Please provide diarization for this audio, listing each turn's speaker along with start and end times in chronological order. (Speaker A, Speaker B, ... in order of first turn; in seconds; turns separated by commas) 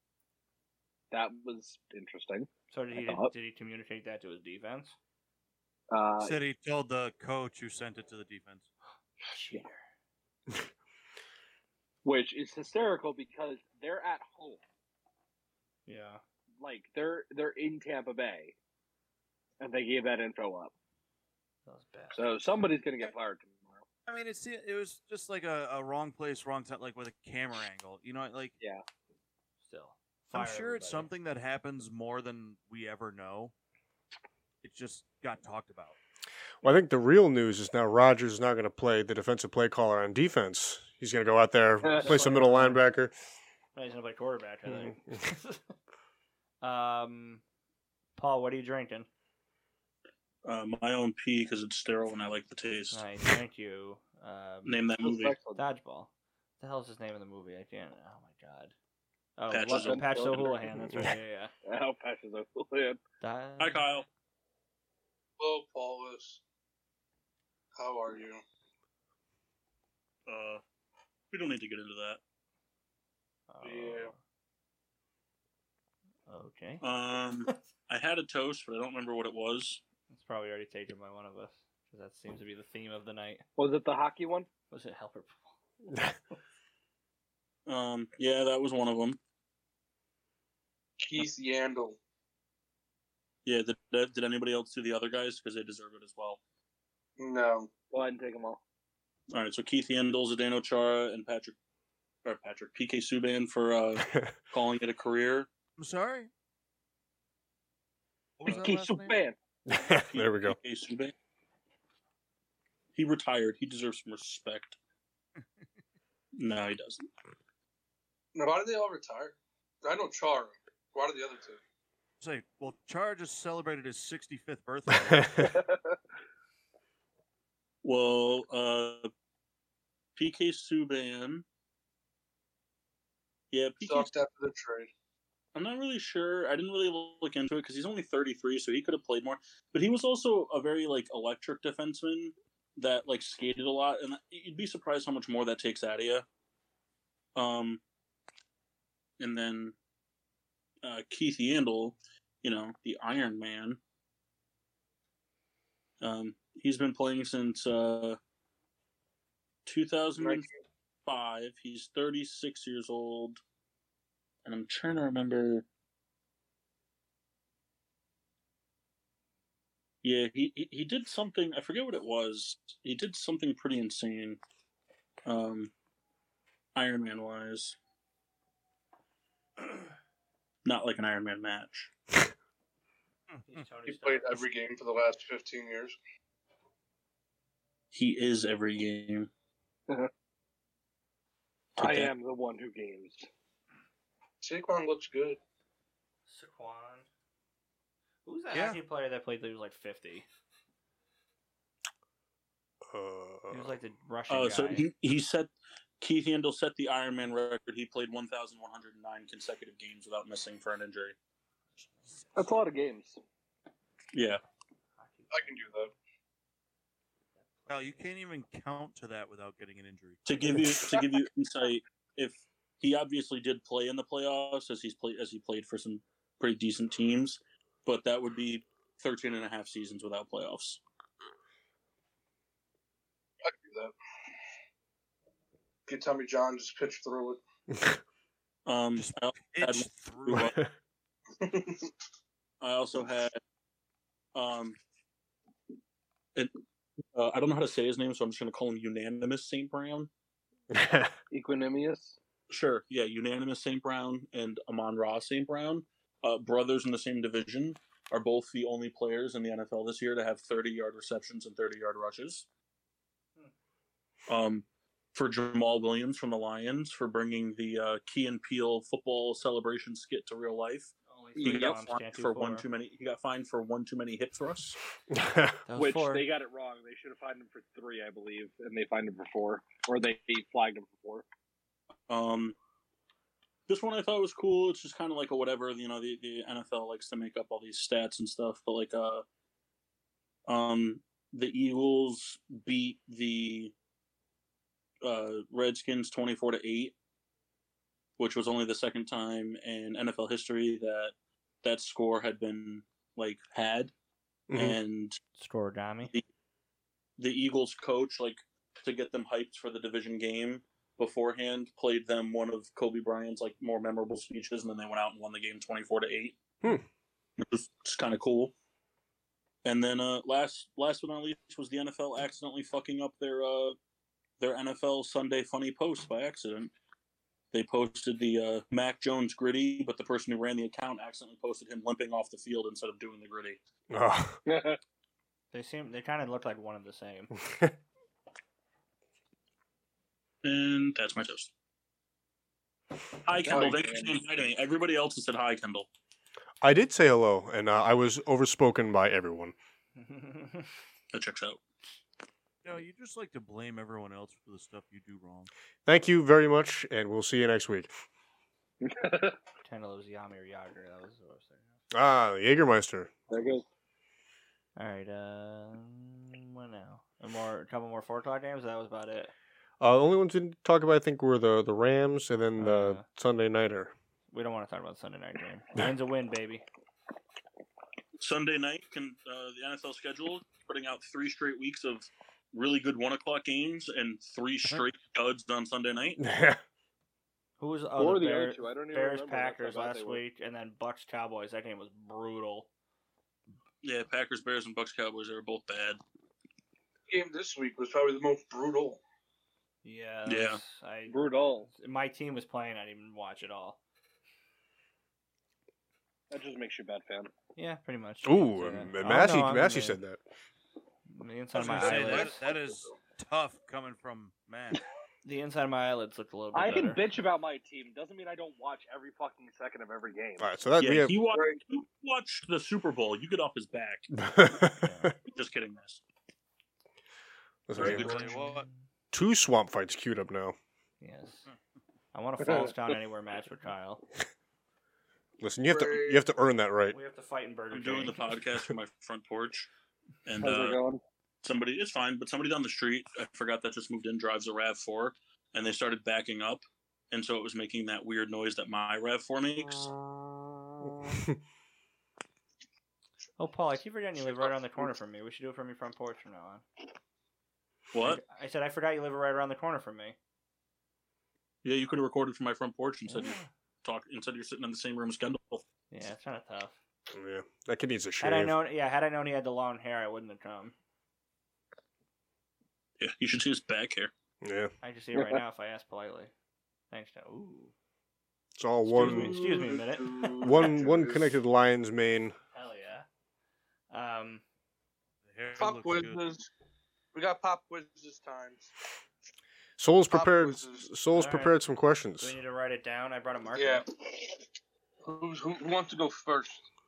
Speaker A: 1.1-3.3, Speaker B: 2.7-5.0, Speaker A: 5.9-6.4, Speaker C: 6.2-8.7, Speaker B: 9.3-9.8, Speaker A: 12.1-14.6, Speaker B: 15.9-16.2, Speaker A: 16.6-18.6, Speaker A: 19.6-20.7, Speaker B: 21.7-22.3, Speaker A: 22.1-23.9, Speaker C: 24.1-28.6, Speaker B: 29.6-31.1, Speaker C: 30.3-33.5, Speaker C: 34.6-36.0, Speaker D: 36.6-43.1, Speaker A: 41.8-42.2, Speaker B: 42.0-42.8, Speaker B: 43.8-45.7, Speaker D: 44.7-45.2, Speaker B: 46.6-47.4, Speaker B: 48.2-49.1, Speaker E: 50.4-53.0, Speaker B: 52.9-54.9, Speaker E: 54.6-55.4, Speaker A: 55.0-55.6, Speaker B: 55.6-58.7, Speaker B: 59.4-61.5, Speaker E: 59.5-60.4, Speaker A: 59.7-60.6, Speaker D: 60.8-61.1, Speaker A: 61.7-63.0, Speaker B: 63.2-63.9, Speaker E: 63.6-64.1, Speaker F: 65.4-66.4, Speaker F: 67.8-68.4, Speaker E: 70.3-70.6, Speaker E: 71.3-72.2, Speaker B: 73.5-74.2, Speaker F: 73.6-74.1, Speaker B: 76.3-76.9, Speaker E: 76.8-79.8, Speaker B: 80.1-83.4, Speaker A: 83.6-84.5, Speaker B: 84.7-85.5, Speaker E: 87.7-89.2, Speaker F: 91.0-92.0, Speaker E: 93.5-96.4, Speaker F: 97.2-97.7, Speaker A: 97.9-98.6, Speaker E: 99.3-101.6, Speaker E: 102.2-105.5, Speaker D: 104.0-104.3, Speaker C: 105.8-106.3, Speaker C: 108.4-109.2, Speaker A: 108.5-109.4, Speaker D: 109.7-110.6, Speaker E: 110.1-111.1, Speaker E: 113.0-114.8, Speaker E: 116.4-117.1, Speaker F: 118.3-121.6, Speaker C: 122.2-125.6, Speaker D: 125.0-125.5, Speaker A: 125.5-125.9, Speaker E: 127.8-129.1, Speaker E: 130.2-131.4, Speaker E: 133.5-134.1, Speaker F: 133.8-134.9, Speaker E: 135.6-146.3, Speaker E: 147.4-147.8, Speaker E: 149.2-149.8, Speaker E: 150.8-153.8, Speaker E: 156.0-158.2, Speaker E: 159.7-160.5, Speaker F: 160.2-160.5, Speaker E: 161.1-163.4, Speaker E: 164.4-165.7, Speaker E: 170.0-174.4, Speaker E: 175.2-175.7, Speaker E: 176.8-177.8, Speaker E: 180.6-181.9, Speaker C: 183.3-183.6, Speaker B: 183.5-184.4, Speaker F: 183.9-186.0, Speaker E: 187.9-189.3, Speaker E: 191.8-192.1, Speaker A: 191.8-193.3, Speaker F: 194.4-195.4, Speaker B: 196.3-197.1, Speaker B: 198.2-200.3, Speaker C: 198.5-198.8, Speaker D: 202.9-203.8, Speaker B: 203.5-204.9, Speaker E: 204.3-211.2, Speaker A: 212.4-213.2, Speaker E: 214.1-214.4, Speaker B: 215.0-215.7, Speaker F: 215.3-215.9, Speaker B: 217.4-218.1, Speaker C: 217.7-220.2, Speaker E: 220.2-230.8, Speaker F: 233.4-233.9, Speaker F: 235.9-237.4, Speaker D: 237.7-238.0, Speaker E: 238.7-240.6, Speaker C: 239.0-240.5, Speaker D: 240.3-240.7, Speaker F: 241.4-241.9, Speaker E: 242.6-243.4, Speaker E: 244.3-244.8, Speaker E: 246.3-246.6, Speaker E: 247.1-250.1, Speaker D: 250.7-251.1, Speaker A: 251.3-252.2, Speaker E: 252.5-262.5, Speaker E: 264.3-274.8, Speaker B: 271.1-272.6, Speaker A: 271.4-271.7, Speaker D: 275.1-275.6, Speaker B: 275.7-276.2, Speaker A: 275.8-281.2, Speaker E: 282.1-282.6, Speaker E: 283.7-289.2, Speaker E: 290.5-293.7, Speaker E: 295.0-296.9, Speaker E: 298.2-303.9, Speaker D: 304.5-304.8, Speaker E: 304.6-305.2, Speaker B: 305.4-306.1, Speaker E: 307.2-316.4, Speaker E: 317.4-318.5, Speaker E: 319.6-323.8, Speaker E: 324.4-326.7, Speaker E: 327.5-333.6, Speaker D: 333.9-334.4, Speaker A: 334.5-334.8, Speaker B: 335.5-337.3, Speaker D: 337.5-337.7, Speaker E: 340.4-341.5, Speaker E: 343.2-345.9, Speaker F: 343.4-344.2, Speaker D: 346.6-349.6, Speaker B: 350.0-350.7, Speaker E: 351.1-351.6, Speaker C: 352.6-355.5, Speaker D: 355.9-357.9, Speaker A: 358.8-359.4, Speaker B: 359.6-361.8, Speaker D: 361.9-363.2, Speaker A: 363.3-363.6, Speaker B: 364.8-369.3, Speaker D: 369.8-373.9, Speaker B: 372.6-373.1, Speaker B: 374.3-376.6, Speaker E: 378.2-386.2, Speaker D: 386.2-386.6, Speaker B: 387.6-392.7, Speaker A: 388.0-390.2, Speaker E: 393.8-396.0, Speaker F: 397.1-399.0, Speaker B: 399.8-403.8, Speaker E: 400.3-400.6, Speaker A: 401.1-401.7, Speaker A: 406.3-407.3, Speaker B: 407.6-410.0, Speaker D: 408.2-410.2, Speaker B: 411.1-412.4, Speaker C: 411.6-414.8, Speaker F: 411.8-412.7, Speaker B: 415.2-417.0, Speaker A: 416.5-420.5, Speaker D: 420.4-421.1, Speaker E: 420.8-424.1, Speaker F: 421.3-421.6, Speaker D: 424.1-425.1, Speaker B: 424.8-425.1, Speaker E: 425.3-426.0, Speaker D: 427.7-428.2, Speaker E: 427.8-428.3, Speaker C: 427.8-428.7, Speaker B: 428.1-428.8, Speaker D: 429.1-430.6, Speaker B: 431.0-431.5, Speaker B: 432.1-434.0, Speaker A: 432.4-432.8, Speaker D: 435.4-437.0, Speaker F: 435.7-436.2, Speaker B: 436.9-438.2, Speaker E: 437.7-439.7, Speaker E: 440.2-440.8, Speaker A: 440.4-441.0, Speaker E: 441.4-449.9, Speaker A: 450.8-451.2, Speaker B: 453.4-456.6, Speaker E: 457.9-458.2, Speaker B: 458.0-460.2, Speaker E: 461.6-465.6, Speaker B: 463.1-463.5, Speaker B: 465.9-466.8, Speaker D: 467.1-468.6, Speaker B: 468.2-470.8, Speaker E: 473.0-474.1, Speaker D: 474.4-474.7, Speaker B: 474.8-476.3, Speaker A: 475.1-475.4, Speaker B: 476.9-477.7, Speaker D: 478.6-479.4, Speaker B: 478.9-480.7, Speaker F: 478.9-481.3, Speaker D: 480.4-482.4, Speaker B: 482.5-483.1, Speaker B: 483.9-484.4, Speaker C: 485.2-486.2, Speaker F: 485.6-486.5, Speaker F: 487.1-488.7, Speaker D: 489.8-492.4, Speaker F: 490.1-490.9, Speaker B: 491.1-491.6, Speaker B: 492.2-493.9, Speaker F: 493.6-494.4, Speaker F: 495.0-496.6